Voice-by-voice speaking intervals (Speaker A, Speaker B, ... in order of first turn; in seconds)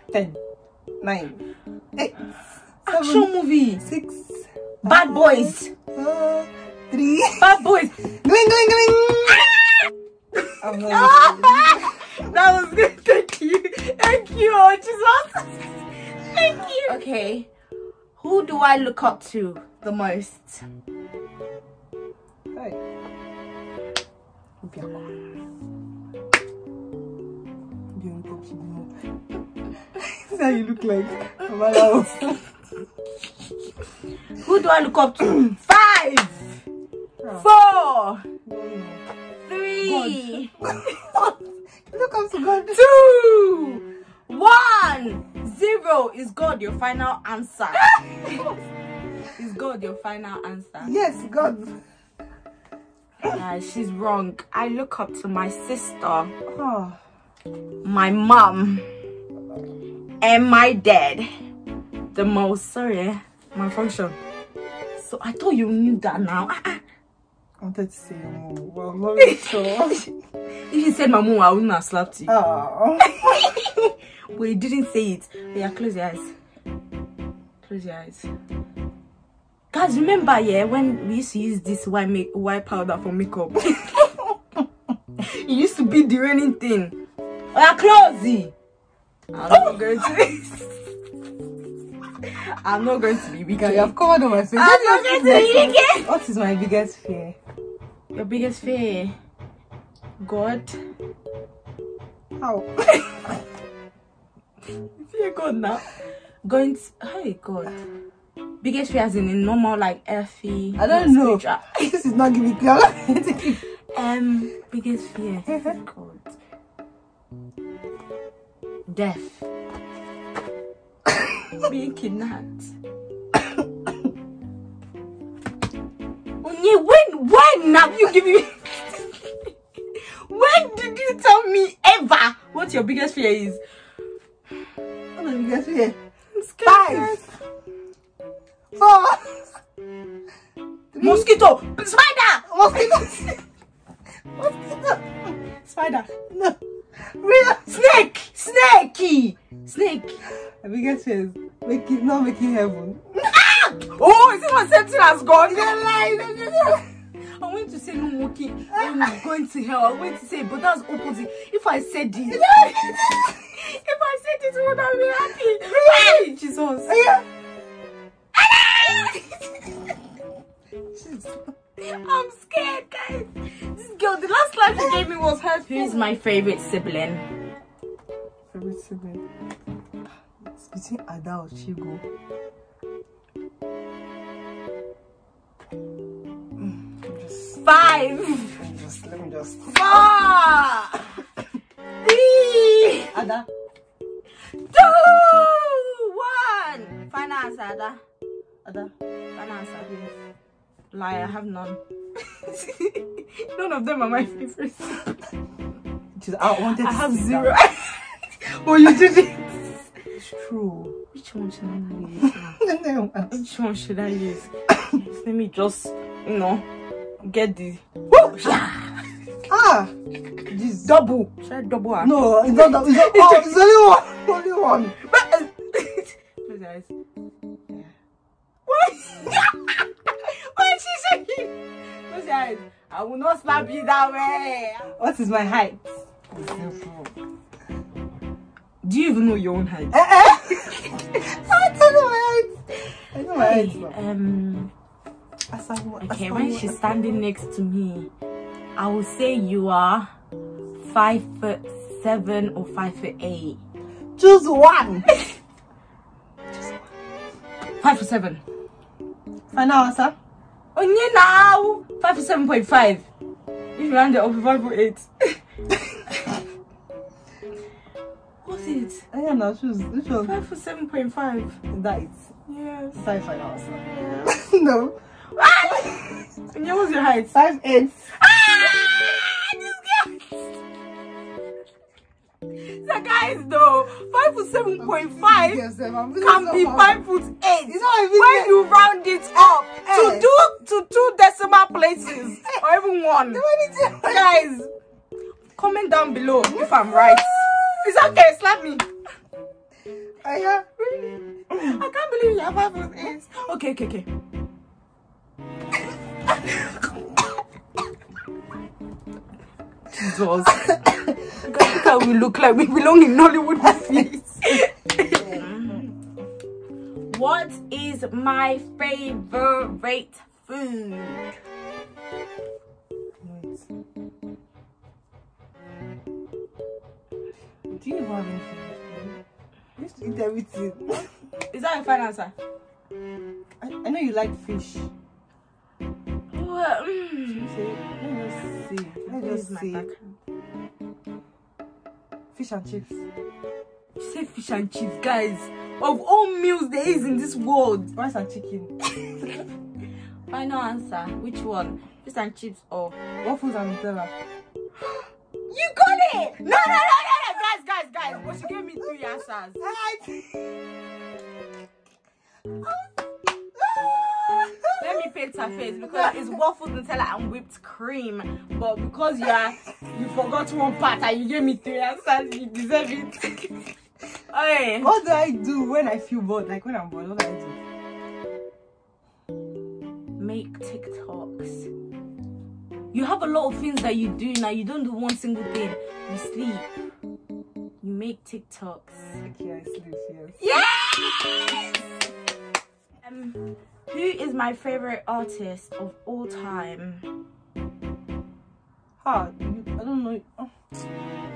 Speaker A: 0.1-0.4, 1.0-1.4, 2.0-9.5, 10.6-11.9, 22.5-22.8, 24.6-25.1, 27.9-29.0, 29.7-32.4, 38.5-39.0, 39.8-42.8, 50.8-51.8, 56.5-57.0, 67.6-70.1, 72.3-73.2, 93.5-97.4, 102.4-102.9, 110.8-113.6, 135.2-136.0, 136.6-137.3, 138.8-139.6, 140.9-141.3, 142.5-143.4, 144.4-145.2, 146.3-148.0, 150.5-153.3, 166.9-167.2, 171.0-171.5, 178.5-179.2, 180.4-182.0, 186.6-187.7, 188.6-190.0, 193.1-193.5, 198.6-198.9, 199.9-200.2, 206.2-207.6, 210.2-210.9, 212.6-213.4, 219.5-219.9, 220.5-221.0, 222.0-225.0, 234.9-237.1, 239.9-242.6, 243.1-243.9, 245.5-247.2, 254.2-255.1, 256.5-256.9, 259.5-260.1, 269.1-270.3, 271.7-272.3, 272.9-275.0, 275.7-276.1, 277.3-278.1, 284.8-287.0, 287.7-288.6, 289.4-290.3, 293.3-294.4, 296.6-297.5, 300.2-300.7, 315.2-315.9, 323.2-323.7, 327.7-329.2, 329.8-331.2, 333.6-334.9, 337.3-339.9, 342.3-343.0, 347.9-348.7, 353.2-354.1, 359.6-360.4, 363.6-365.1, 365.9-366.2, 374.8-377.6, 389.2-390.4, 399.0-400.5
Speaker B: 2.9-3.8, 4.8-5.7, 7.4-8.0, 10.4-17.5, 18.2-20.6, 34.4-36.6, 37.3-38.2, 39.4-40.6, 42.7-48.5, 49.4-51.0, 53.2-56.3, 57.8-58.9, 60.2-61.3, 62.1-64.2, 65.0-66.8, 70.7-72.3, 73.0-76.3, 77.6-78.3, 79.7-84.3, 85.2-87.0, 87.5-88.5, 89.3-90.9, 92.2-94.0, 94.5-96.1, 98.1-99.2, 100.2-100.8, 104.9-107.8, 108.6-111.9, 113.9-116.3, 118.9-119.4, 121.6-122.7, 126.4-129.3, 130.2-133.6, 136.3-137.3, 141.0-143.4, 145.6-146.1, 147.6-150.2, 153.3-167.2, 168.3-169.5, 171.8-177.3, 187.6-188.6, 189.7-191.2, 192.0-193.2, 194.4-198.0, 199.3-199.9, 200.9-205.2, 206.5-209.9, 211.1-212.6, 213.3-216.6, 217.2-219.0, 220.8-223.5, 225.0-226.9, 228.7-231.5, 232.1-234.9, 238.8-241.1, 243.3-244.7, 246.0-248.1, 248.8-250.1, 250.8-253.6, 257.8-258.4, 260.8-263.0, 263.8-265.4, 268.4-269.0, 270.2-271.6, 272.5-273.0, 273.7-274.4, 275.3-277.3, 278.1-280.4, 282.5-285.6, 286.2-293.4, 294.0-294.7, 295.6-298.9, 300.8-304.1, 309.9-315.8, 317.1-321.2, 331.5-332.3, 336.3-337.5, 339.0-340.2, 344.0-347.9, 350.3-353.0, 355.0-359.6, 364.8-374.9, 380.2-381.7, 382.9-386.7, 387.8-389.2, 390.4-391.8, 393.0-393.4, 393.9-397.1